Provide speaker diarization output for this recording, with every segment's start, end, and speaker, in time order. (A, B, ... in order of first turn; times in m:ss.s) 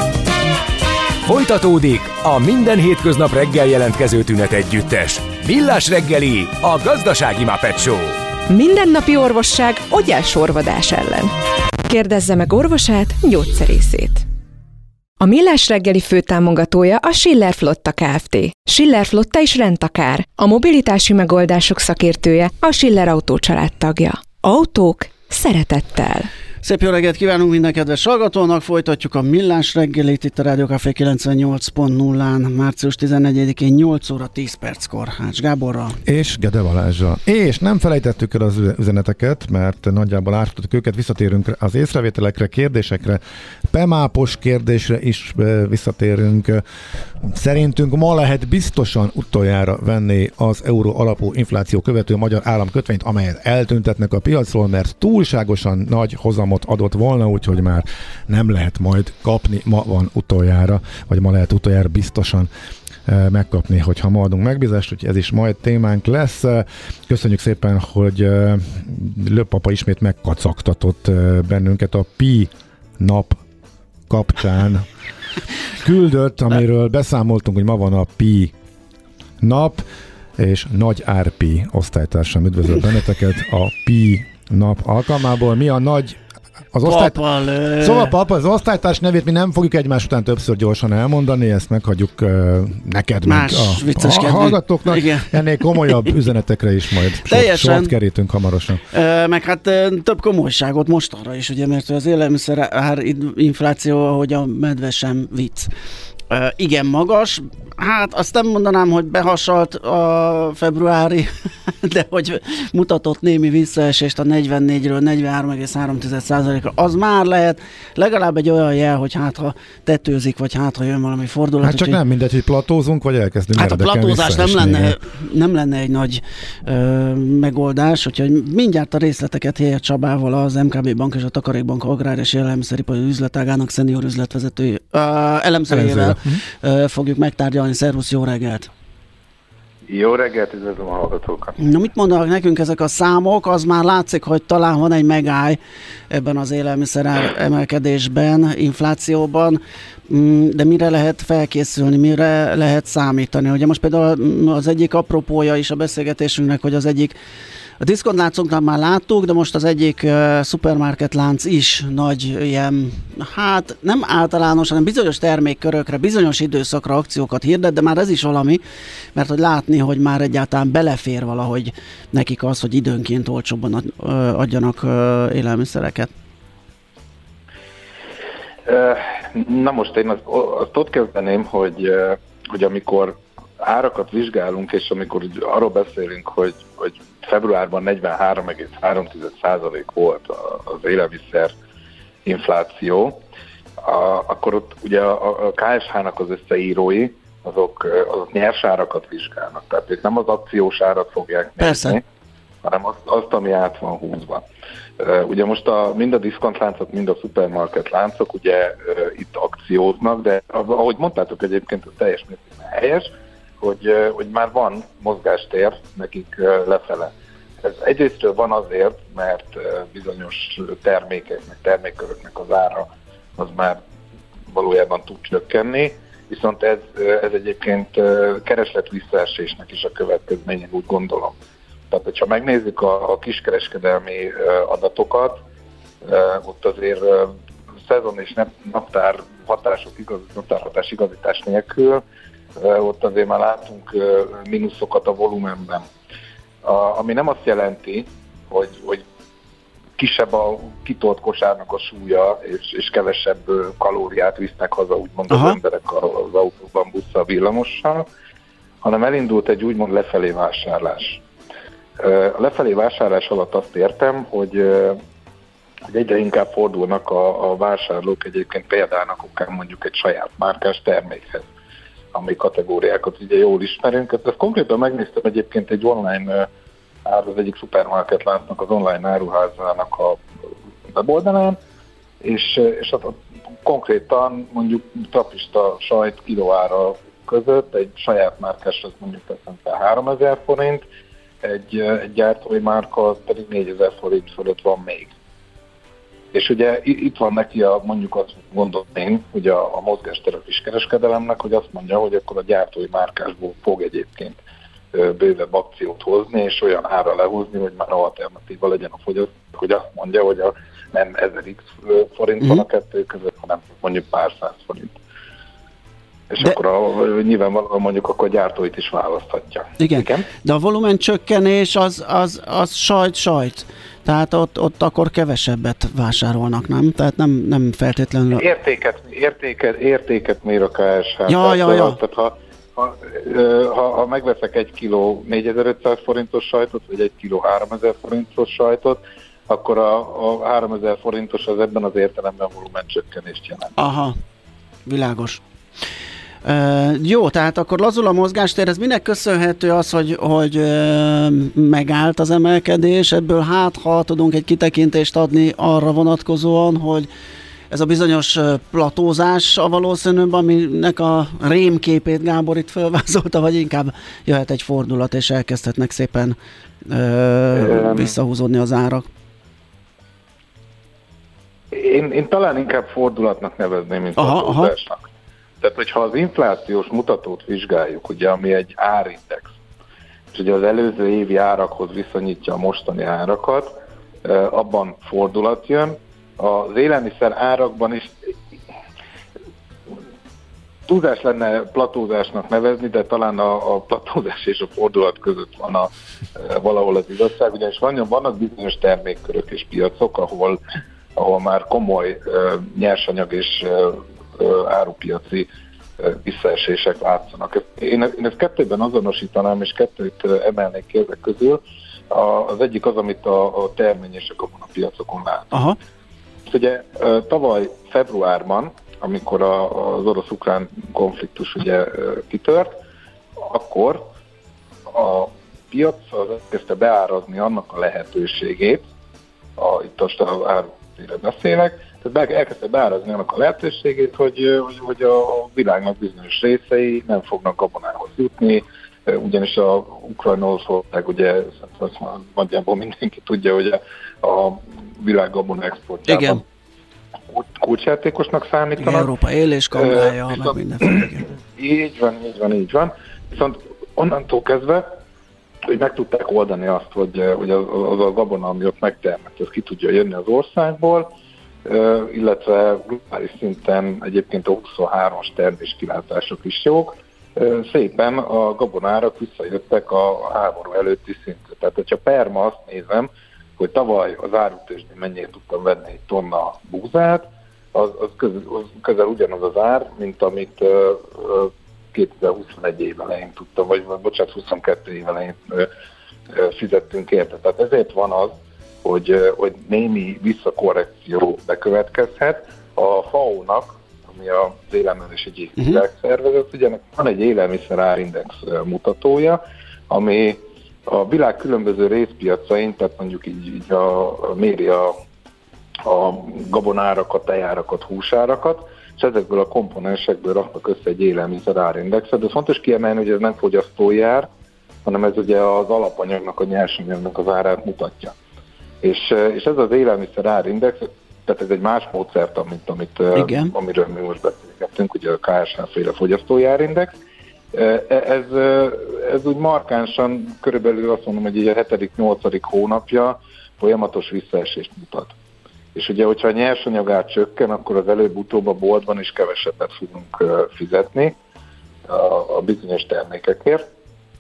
0:01.2-0:08.2 A
0:08.5-0:11.3 B
0:11.8-0:14.2 B
0:15.2-0:26.3 B
0:26.6-0:36.0 C
0:36.0-0:46.6 D
0:47.2-1:02.5 D
1:03.0-1:13.4 D
1:14.1-1:14.8 D
1:15.8-1:18.5 D
1:19.4-1:19.8 D
1:20.4-1:26.2 D
1:26.7-1:27.2 D
1:26.8-1:28.1 C
1:27.8-1:38.8 D
1:33.2-1:36.1 C
1:37.3-1:37.9 C
1:38.9-1:45.7 C
1:46.3-1:51.3 C
1:51.8-2:02.0 C
2:01.6-2:05.0 D
2:03.5-2:18.7 C
2:15.7-2:16.4 D
2:19.9-2:21.6 E
2:21.6-2:25.6 C
2:26.1-2:37.2 C
2:37.8-2:48.6 C
2:49.1-2:56.1 C
2:58.6-3:11.5 E
3:12.2-3:13.2 E
3:13.8-3:22.0 E
3:21.6-3:22.0 C
3:22.6-3:24.4 E
3:25.0-3:43.8 E
3:44.5-3:51.3 E
3:51.9-3:55.4 E
3:56.0-4:02.0 E
4:02.6-4:05.8 E
4:06.6-4:09.0 E
4:10.0-4:18.1 E
4:15.3-4:15.6 C
4:18.8-4:21.2 E
4:22.0-4:25.0 E
4:25.9-4:31.4 E
4:32.1-4:36.5 E
4:37.0-4:40.2 E
4:40.9-4:41.6 E
4:42.2-4:50.8 E
4:51.4-4:55.1 E
4:56.3-5:04.4 E
5:04.9-5:14.9 E
5:16.3-5:20.3 E
5:19.8-5:28.4 C
5:28.4-5:43.8 E
5:31.3-5:32.0 C
5:43.8-5:44.2 C
5:44.8-5:45.4 C
5:46.4-5:57.1 C
5:57.7-6:09.1 C
6:07.6-6:08.1 E
6:11.7-6:15.1 E
6:14.2-6:14.7 C
6:15.6-6:19.5 E
6:20.3-6:28.1 E
6:30.9-6:40.6 E
6:41.2-6:55.5 E
6:55.5-6:55.8 C
6:56.5-7:02.7 E
7:03.4-7:04.1 E
7:04.9-7:08.8 E
7:09.6-7:26.4 E
7:26.1-7:26.4 C
7:27.3-7:29.1 E
7:28.8-7:31.2 C
7:29.7-7:30.9 E
7:31.6-7:34.9 E
7:35.7-7:41.1 E
7:41.6-8:05.7 E
8:06.3-8:25.0 E
8:25.8-8:34.3 E
8:34.8-8:38.1 E
8:38.8-8:47.0 E
8:43.1-8:43.5 C
8:47.5-8:55.1 E
8:55.7-9:01.2 E
9:01.9-9:03.7 E